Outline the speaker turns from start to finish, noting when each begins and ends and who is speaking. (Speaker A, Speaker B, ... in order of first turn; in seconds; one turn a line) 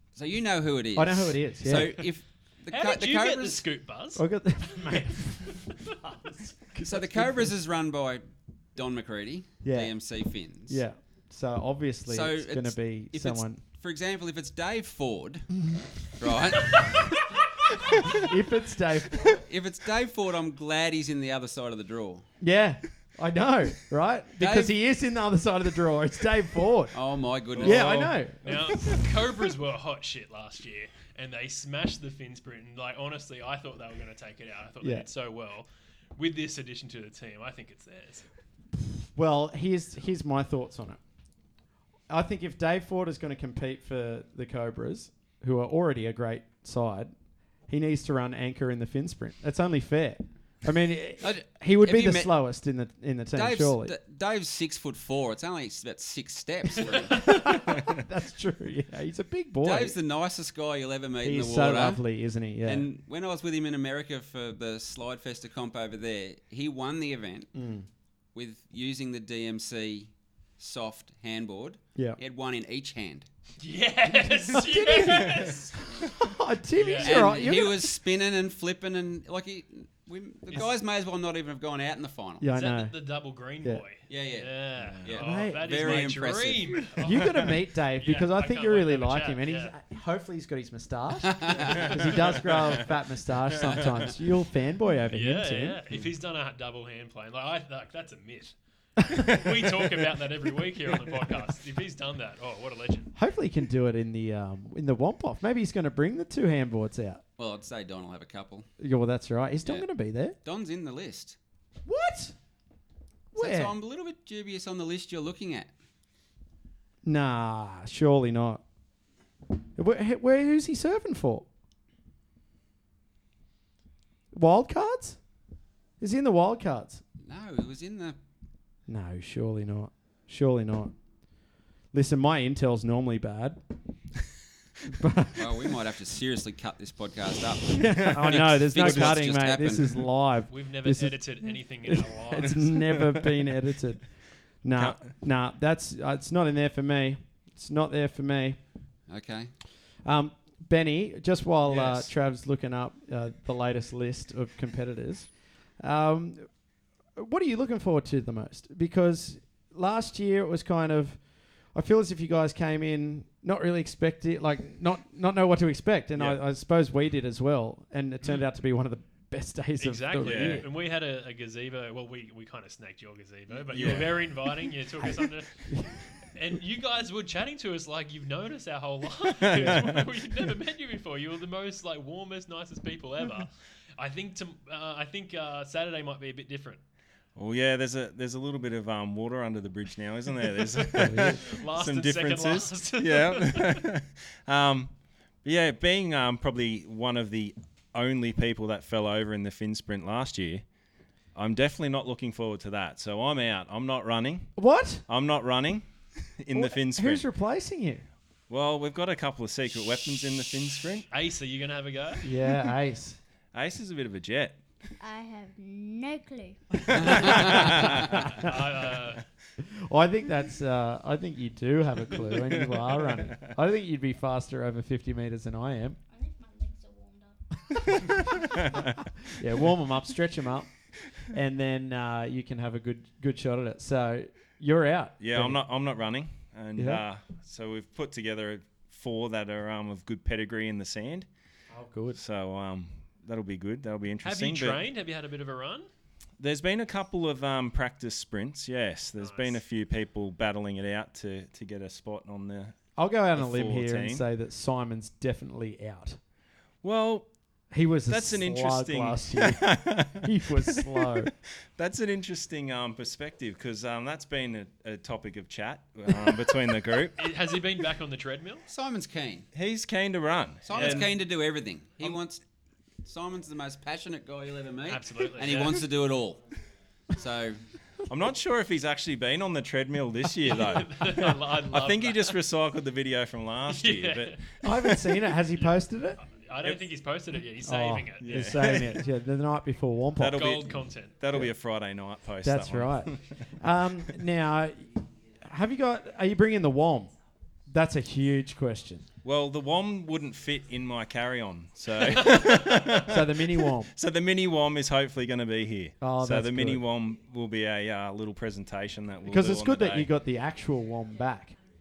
Speaker A: 0.2-3.6
Speaker B: 0.9-2.0
Speaker C: 2.7-5.7
Speaker B: 4.2-7.5
Speaker A: 6.8-8.2
Speaker A: 8.8-10.8
Speaker B: 9.6-9.9
Speaker B: 10.7-13.6
Speaker A: 12.1-15.5
Speaker A: 16.1-17.2
Speaker C: 16.7-17.3
Speaker A: 17.8-18.3
Speaker B: 18.0-19.4
Speaker A: 19.3-22.3
Speaker B: 22.4-27.0
Speaker A: 24.4-24.8
Speaker A: 26.9-28.1
Speaker B: 27.6-29.0
Speaker D: 27.6-28.1
Speaker C: 28.4-38.3
Speaker B: 34.8-35.1
Speaker B: 38.8-41.0
Speaker B: 42.1-47.1
Speaker B: 47.7-54.0
Speaker A: 51.2-52.3
Speaker A: 53.3-57.7
Speaker B: 57.1-60.0
Speaker C: 57.2-57.5
Speaker A: 59.6-62.0
Speaker B: 61.2-62.9
Speaker A: 62.6-67.5
Speaker B: 67.5-67.9
Speaker A: 68.3-73.3
Speaker C: 73.6-75.8
Speaker B: 74.5-78.0
Speaker C: 76.7-77.3
Speaker A: 77.0-82.5
Speaker B: 82.4-83.0
Speaker C: 82.5-89.8
Speaker A: 84.1-86.9
Speaker D: 84.8-85.2
Speaker B: 85.2-86.1
Speaker B: 87.0-96.1
Speaker A: 91.2-92.1
Speaker C: 91.5-92.3
Speaker D: 92.4-92.8
Speaker D: 93.5-93.9
Speaker C: 95.1-103.2
Speaker B: 99.0-99.7
Speaker B: 103.2-107.2
Speaker A: 107.4-108.7
Speaker B: 108.8-110.4
Speaker A: 110.4-111.4
Speaker B: 111.9-112.3
Speaker B: 113.3-113.8
Speaker A: 113.4-115.7
Speaker B: 117.0-118.6
Speaker B: 119.8-121.5
Speaker B: 124.3-125.2
Speaker B: 126.0-127.0
Speaker A: 127.2-128.2
Speaker B: 128.9-130.9
Speaker B: 131.9-133.6
Speaker B: 134.9-135.7
Speaker A: 135.3-140.1
Speaker B: 137.7-144.1
Speaker D: 137.9-139.2
Speaker C: 140.5-142.9
Speaker D: 142.9-143.3
Speaker B: 144.6-148.6
Speaker D: 144.8-145.1
Speaker A: 149.1-149.5
Speaker B: 150.0-156.5
Speaker B: 157.2-161.2
Speaker B: 161.7-170.7
Speaker C: 169.8-186.8
Speaker D: 170.2-170.6
Speaker D: 173.7-174.3
Speaker B: 175.7-176.0
Speaker D: 179.4-180.0
Speaker D: 187.4-200.6
Speaker B: 190.8-191.4
Speaker C: 191.3-193.8
Speaker D: 201.3-204.5
Speaker B: 204.6-205.1
Speaker D: 205.1-207.2
Speaker B: 206.5-208.1
Speaker D: 208.5-211.1
Speaker C: 211.1-212.3
Speaker B: 212.2-213.2
Speaker D: 213.5-214.6
Speaker E: 215.0-218.1
Speaker B: 216.9-218.2
Speaker D: 217.0-218.2
Speaker A: 217.1-217.4
Speaker C: 218.4-219.2
Speaker B: 219.6-226.0
Speaker D: 222.4-223.5
Speaker E: 226.1-228.7
Speaker D: 228.0-229.3
Speaker B: 229.2-230.7
Speaker B: 231.3-235.6
Speaker D: 235.2-241.3
Speaker B: 236.8-237.1
Speaker B: 241.7-242.2
Speaker D: 242.2-244.8
Speaker C: 244.2-245.9
Speaker D: 246.4-252.8
Speaker C: 249.2-249.6
Speaker B: 253.0-256.2
Speaker D: 253.3-254.2
Speaker D: 256.8-257.3
Speaker B: 257.7-261.3
Speaker D: 258.1-267.3
Speaker C: 267.2-268.7
Speaker A: 268.7-269.5
Speaker D: 269.6-271.1
Speaker A: 270.6-272.4
Speaker A: 273.1-276.4
Speaker C: 274.9-275.8
Speaker A: 277.1-277.6
Speaker D: 278.1-285.0
Speaker C: 280.5-282.4
Speaker C: 283.7-284.6
Speaker B: 284.6-286.2
Speaker C: 286.2-288.5
Speaker B: 287.6-290.6
Speaker D: 288.2-289.0
Speaker D: 290.2-293.4
Speaker C: 290.4-291.2
Speaker B: 291.3-291.5
Speaker B: 292.4-297.1
Speaker B: 297.7-299.1
Speaker D: 299.2-310.1
Speaker B: 303.0-303.9
Speaker B: 306.0-306.8
Speaker B: 309.2-311.6